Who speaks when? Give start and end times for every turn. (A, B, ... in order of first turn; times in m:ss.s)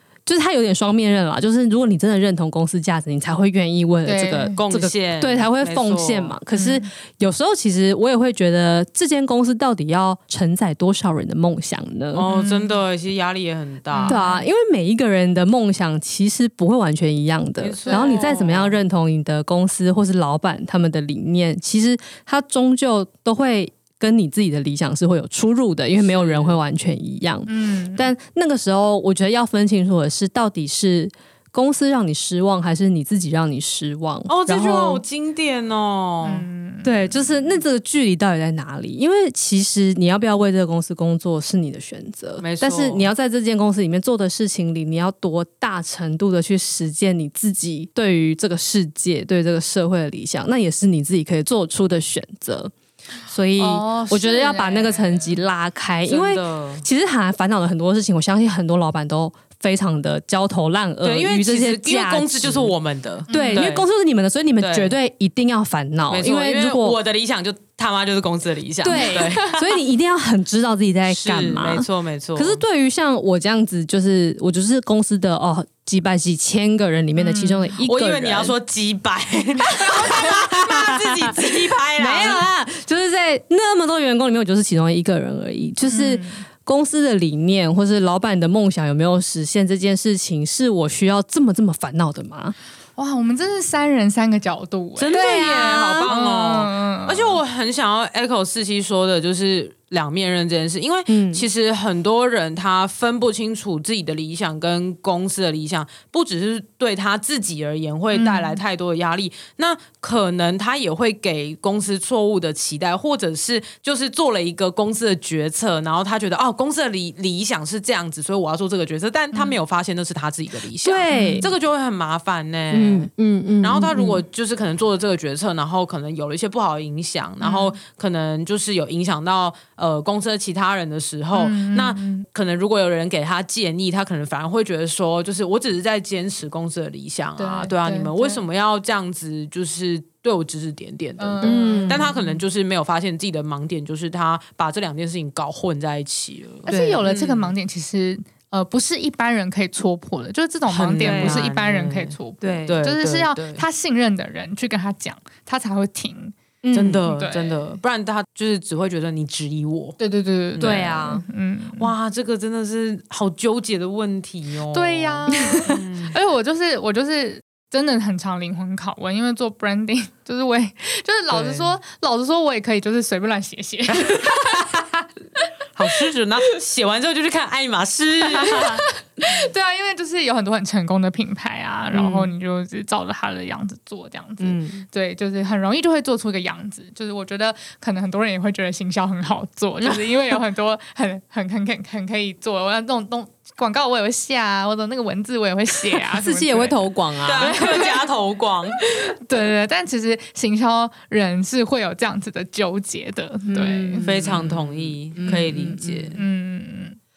0:00.2-0:12.3 A
0:04.0-0:04.6 B
0:04.6-0:06.4 C
0:06.5-0:06.9 B
0:12.1-0:14.2 C
0:12.2-0:12.8 B
0:13.9-0:14.5 B
0:14.0-0:35.0 A
0:17.6-0:18.8 C
0:17.9-0:18.3 B
0:26.0-0:26.6 C
0:27.5-0:28.1 B
0:34.3-0:36.5 C
0:36.2-0:37.6 B
0:36.8-0:52.7 A
0:42.4-0:43.1 C
0:53.2-1:02.7 A
0:53.6-0:55.4 B
0:56.1-0:56.8 C
1:01.0-1:03.8 C
1:03.3-1:07.0 A
1:03.3-1:03.7 B
1:04.6-1:05.0 C
1:06.1-1:09.8 C
1:08.8-1:18.5 A
1:08.9-1:09.5 B
1:11.1-1:12.6 C
1:17.2-1:17.7 B
1:17.8-1:22.4 C
1:19.8-1:20.2 B
1:20.2-1:32.6 A
1:25.9-1:26.4 B
1:33.0-1:37.4 B
1:35.0-2:03.1 C
1:35.1-1:36.1 A
1:41.1-1:41.4 A
1:48.1-1:48.6 B
2:00.8-2:01.5 A
2:01.1-2:01.5 B
2:02.7-2:04.2 A
2:03.6-2:27.5 C
2:07.4-2:07.8 B
2:11.3-2:12.3 B
2:17.4-2:18.4 B
2:21.2-2:22.2 B
2:21.4-2:22.1 A
2:26.6-2:36.3 B
2:26.7-2:27.0 A
2:30.6-2:33.6 C
2:31.0-2:31.4 A
2:32.4-2:32.8 A
2:36.6-2:37.0 A
2:36.7-2:40.0 C
2:37.0-2:37.8 B
2:40.0-2:41.9 B
2:40.6-2:40.9 C
2:40.6-2:41.2 A
2:41.8-2:46.1 C
2:44.7-2:54.7 B
2:45.4-2:45.7 A
2:51.3-2:51.7 C
2:53.9-2:54.9 C
2:55.7-2:58.8 C
2:58.2-3:18.0 B
3:04.4-3:04.8 A
3:16.1-3:17.6 A
3:17.2-3:18.8 C
3:18.8-3:24.1 B
3:23.5-3:26.1 A
3:24.0-3:26.2 C
3:25.2-3:27.0 B